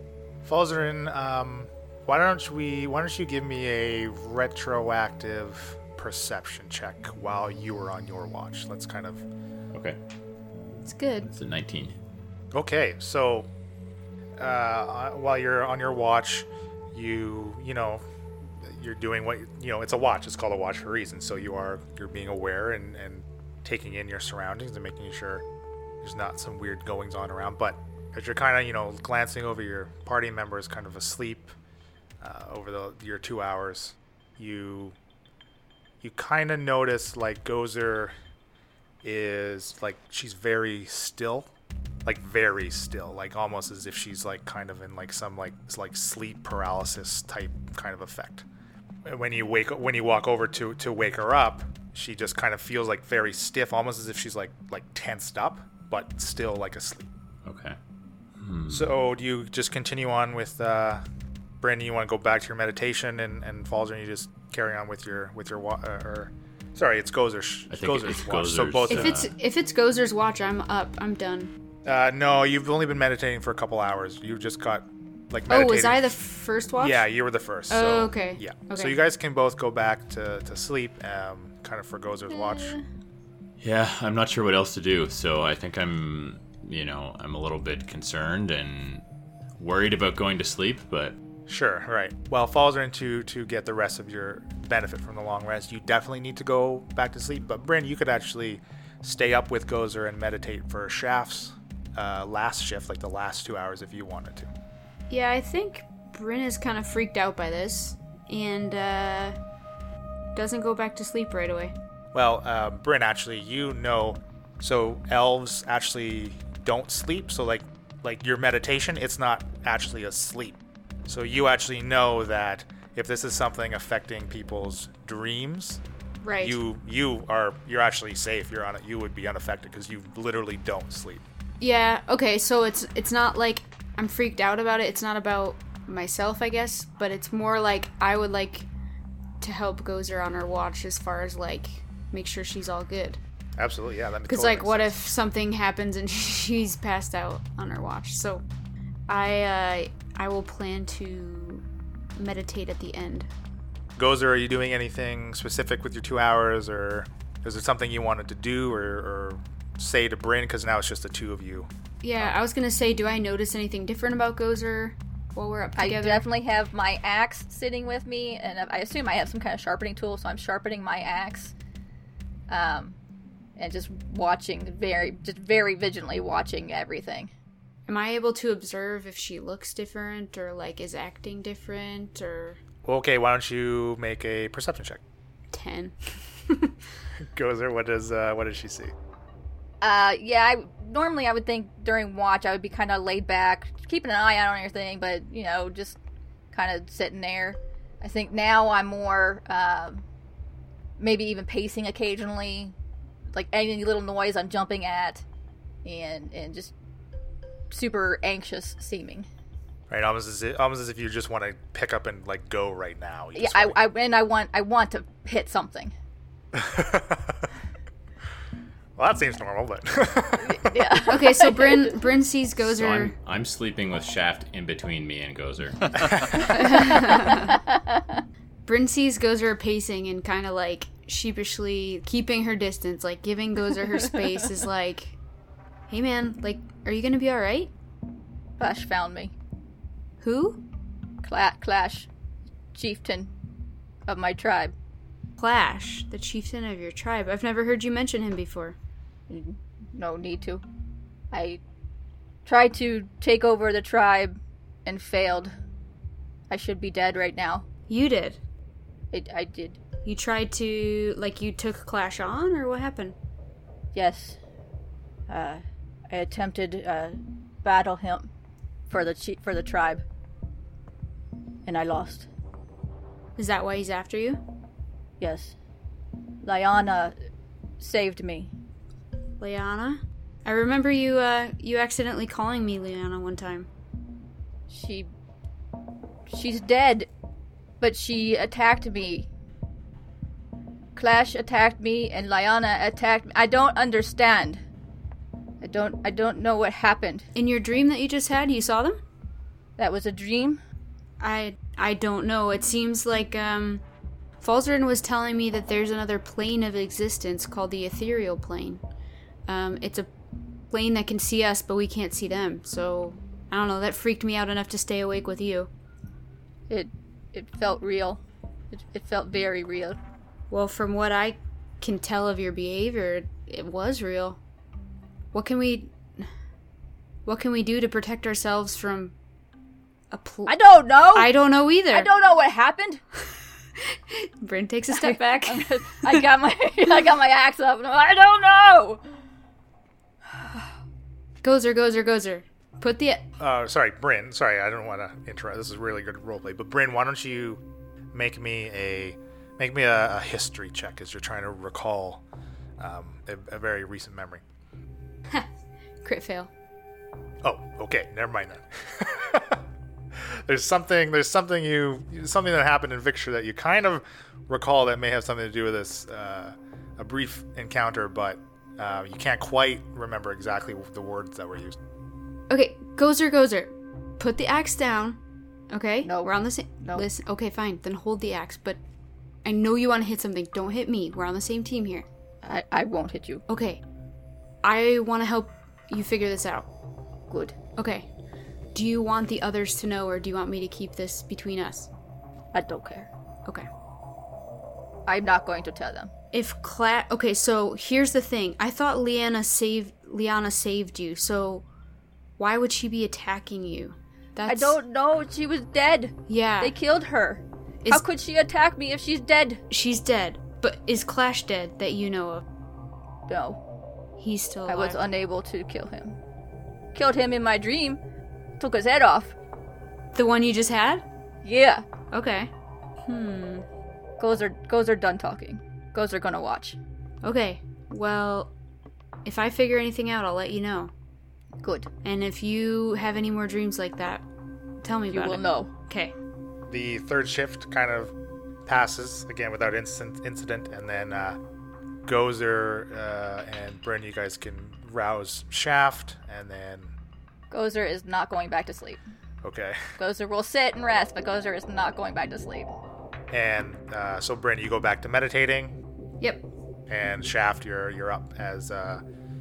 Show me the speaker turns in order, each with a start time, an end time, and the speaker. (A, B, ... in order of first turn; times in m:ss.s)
0:00.4-0:09.2 A
0:10.8-0:11.3 B
0:11.3-0:11.9 C
0:12.5-0:13.5 A
0:14.4-0:18.0 A
0:18.6-0:25.4 A
0:26.0-0:31.5 A
0:32.2-0:35.0 A
0:36.0-0:38.1 A
0:39.0-0:41.5 A
0:42.0-0:48.4 A
0:49.0-0:57.1 A
0:57.4-0:57.8 C
0:58.4-0:58.9 C
0:58.7-1:01.0 A
1:01.6-1:09.2 A
1:07.7-1:09.3 C
1:08.9-1:11.5 B
1:11.8-1:16.1 A
1:15.5-1:17.0 B
1:16.8-1:22.8 A
1:17.7-1:18.9 B
1:22.3-1:22.8 B
1:23.6-1:29.0 C
1:29.6-1:31.2 C
1:31.5-1:44.5 A
1:45.1-1:49.3 B
1:50.3-1:51.7 B
1:52.1-2:05.8 A
2:06.2-2:06.6 B
2:06.4-2:11.2 A
2:11.6-2:18.7 B
2:19.4-2:23.2 B
2:23.6-2:24.9 A
2:24.3-2:28.4 B
2:29.1-2:31.6 B
2:32.2-2:33.3 B
2:34.0-2:42.4 A
2:42.0-2:46.2 B
2:45.8-2:51.5 D
2:52.5-2:53.0 D
2:53.6-2:57.3 D
2:57.9-3:02.6 B
3:02.8-3:05.0 A
3:05.5-3:06.7 B
3:07.2-3:08.9 A
3:09.8-3:16.0 D
3:16.5-3:20.0 D
3:21.0-3:22.7 D
3:23.3-3:25.2 D
3:25.8-3:26.7 D
3:27.7-3:29.3 D
3:29.9-3:33.8 A
3:33.3-3:35.9 D
3:36.5-3:37.5 A
3:39.0-3:41.0 A
3:40.4-3:42.0 D
3:41.1-3:43.1 B
3:42.6-3:45.9 C
3:46.0-3:46.4 A
3:46.4-3:47.6 B
3:46.5-3:48.2 D
3:48.6-3:55.2 B
3:55.9-3:57.7 B
3:58.6-3:59.3 D
4:00.2-4:00.6 B
4:01.2-4:02.1 D
4:02.7-4:03.3 D
4:04.1-4:04.7 D
4:05.4-4:08.8 B
4:09.3-4:10.6 D
4:11.3-4:11.6 D
4:12.4-4:15.5 D
4:16.5-4:17.6 D
4:17.9-4:18.4 B
4:19.1-4:19.8 D
4:20.0-4:23.2 B
4:23.9-4:24.4 D
4:25.3-4:28.3 D
4:28.9-4:30.0 D
4:31.6-4:32.3 D
4:33.4-4:34.4 B
4:35.2-4:35.6 D
4:36.4-4:37.1 D
4:37.8-4:38.5 D
4:39.4-4:43.7 B
4:44.7-4:45.1 D
4:46.3-4:47.1 D
4:47.8-4:49.3 D
4:51.0-4:54.6 D
4:55.6-4:57.3 D
4:57.3-4:59.0 B
4:59.8-5:00.6 D
5:01.2-5:03.8 B
5:04.4-5:08.8 B
5:09.5-5:10.1 B
5:10.7-5:15.7 B
5:16.7-5:18.2 D
5:18.7-5:20.0 D
5:20.5-5:24.4 B
5:25.3-5:26.2 B
5:27.2-5:29.1 B
5:30.1-5:30.5 B
5:30.4-5:33.0 D
5:31.1-5:32.1 B
5:33.8-5:36.2 B
5:34.9-5:39.0 D
5:40.3-5:40.6 D
5:41.4-5:43.2 B
5:43.4-5:47.6 A
5:48.1-5:52.2 A
5:52.8-5:54.4 A
5:56.0-5:56.5 B
5:57.4-5:59.6 A
6:00.1-6:11.8 A
6:12.5-6:15.2 B
6:15.7-6:18.8 B
6:16.0-6:17.0 D
6:19.4-6:22.0 B
6:22.4-6:23.4 D
6:23.5-6:23.8 B
6:24.6-6:26.7 B
6:27.8-6:28.0 B
6:28.7-6:31.9 B
6:32.5-6:33.1 D
6:35.0-6:36.1 D
6:36.3-6:41.6 B
6:42.4-6:44.8 B
6:44.5-6:49.6 D
6:46.3-6:46.7 B
6:49.7-6:52.4 B
6:53.3-6:53.6 D
6:54.2-6:55.0 B
6:54.7-6:56.2 D
6:56.9-6:58.0 D
6:58.6-6:59.3 D
7:00.1-7:01.0 B
7:01.4-7:01.8 D
7:02.1-7:02.5 B
7:03.0-7:03.6 B
7:04.2-7:06.8 D
7:07.2-7:08.5 B
7:09.2-7:10.9 B
7:11.6-7:11.9 D
7:12.0-7:14.2 B
7:14.8-7:16.1 B
7:15.1-7:15.7 D
7:16.7-7:18.1 A
7:18.6-7:21.4 A
7:22.0-7:26.9 A
7:27.5-7:29.0 D
7:29.4-7:29.8 A
7:30.0-7:32.7 D
7:33.3-7:35.8 A
7:36.9-7:39.0 A